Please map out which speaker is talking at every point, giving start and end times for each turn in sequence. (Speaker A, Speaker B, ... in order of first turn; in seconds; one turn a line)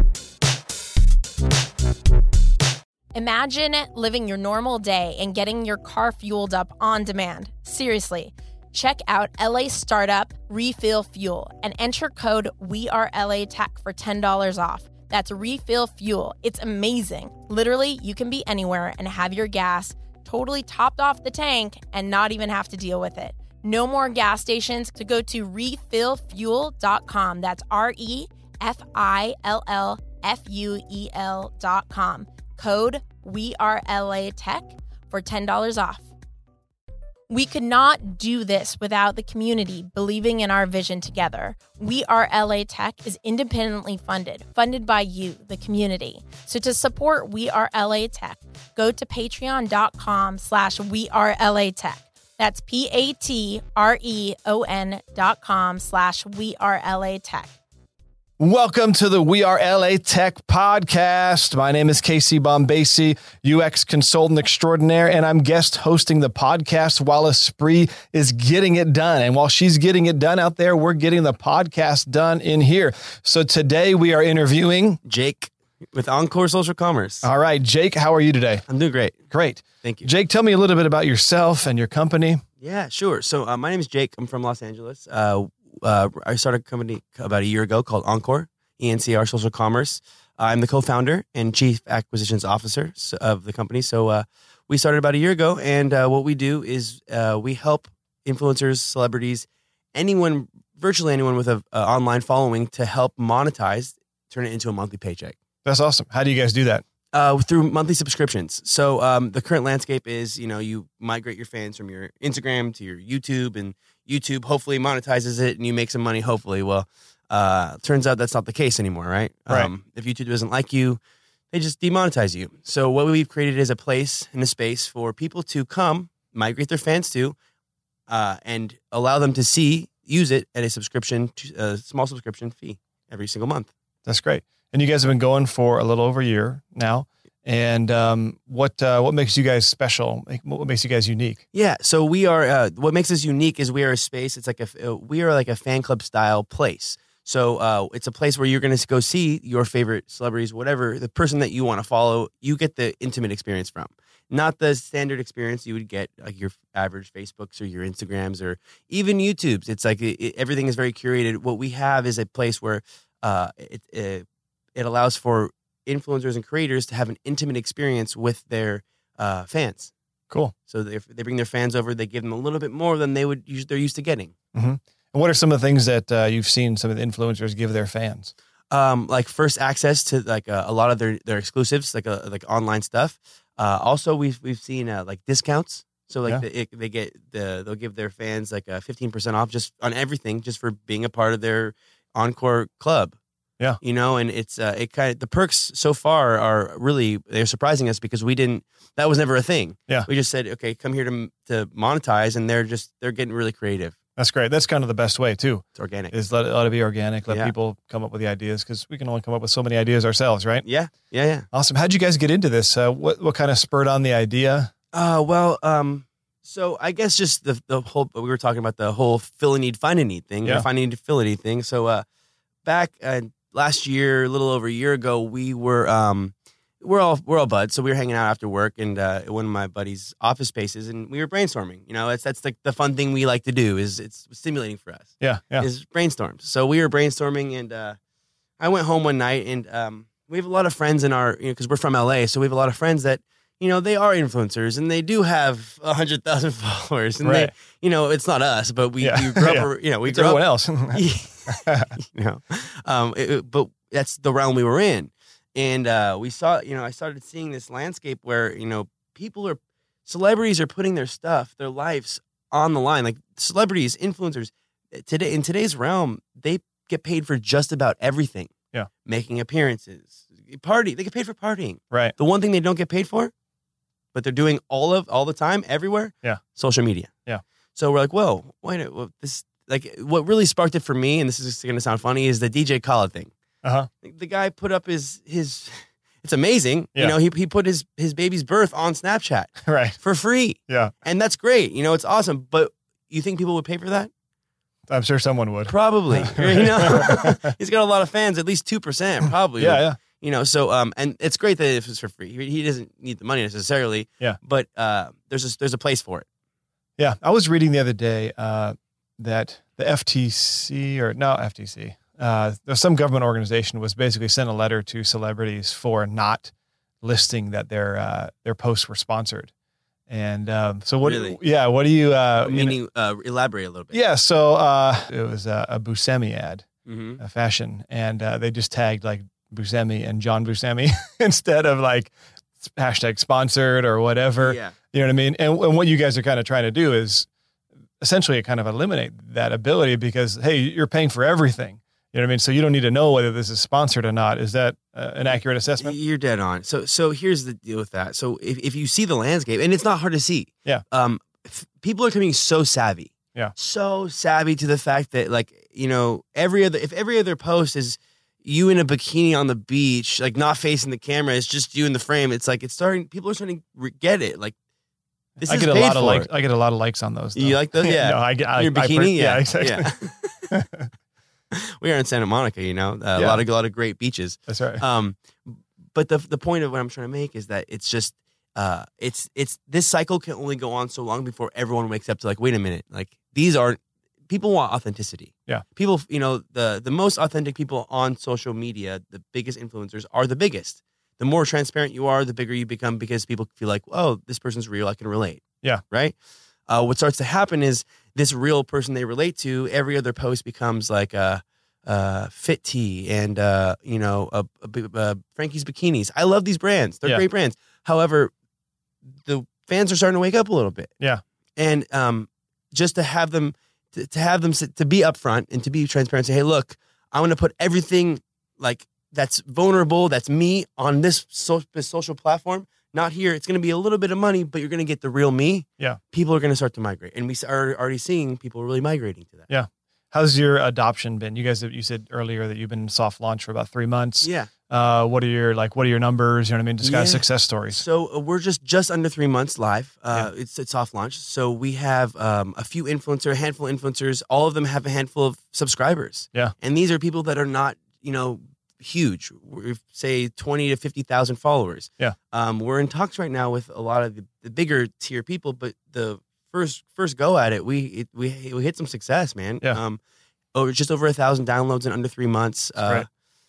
Speaker A: 3.1-36.0
Speaker A: 37.3-57.6
Speaker B: 58.4-75.0
Speaker C: 75.0-77.3
Speaker B: 77.2-78.6
Speaker C: 78.7-79.2
Speaker B: 79.3-82.4
Speaker C: 79.8-80.1
Speaker C: 82.6-105.3
Speaker B: 105.6-106.8
Speaker C: 107.1-121.0
Speaker C: 121.5-127.3
Speaker C: 128.1-133.7
Speaker B: 134.0-141.4
Speaker C: 141.5-169.9
Speaker C: 170.7-174.3
Speaker B: 174.5-178.3
Speaker C: 178.7-193.2
Speaker C: 193.8-203.9
Speaker B: 204.2-210.6
Speaker C: 205.8-206.1
Speaker C: 210.6-211.4
Speaker B: 211.5-214.7
Speaker C: 214.9-222.0
Speaker C: 222.6-238.0
Speaker B: 235.2-235.7
Speaker C: 238.6-268.5
Speaker B: 247.2-247.5
Speaker B: 249.0-251.9
Speaker C: 269.0-273.3
Speaker C: 274.1-277.1
Speaker C: 277.7-283.3
Speaker B: 283.6-283.9
Speaker C: 284.0-294.1
Speaker B: 289.6-290.0
Speaker B: 290.7-290.9
Speaker B: 294.9-297.5
Speaker C: 295.6-306.2
Speaker B: 299.6-300.0
Speaker B: 307.0-319.5
Speaker B: 320.1-322.8
Speaker C: 321.0-321.4
Speaker C: 322.4-324.0
Speaker B: 323.9-326.6
Speaker C: 326.9-327.2
Speaker B: 327.2-337.3
Speaker C: 334.4-334.7
Speaker B: 338.0-345.9
Speaker C: 345.8-364.5
Speaker C: 365.4-366.3
Speaker B: 365.4-370.9
Speaker C: 367.3-370.5
Speaker C: 371.5-396.1
Speaker B: 373.1-373.4
Speaker B: 374.5-374.8
Speaker C: 396.7-408.3
Speaker C: 409.2-410.9
Speaker C: 411.6-429.5
Speaker B: 429.5-437.8
Speaker C: 434.2-434.5
Speaker C: 436.8-460.0
Speaker C: 460.5-463.1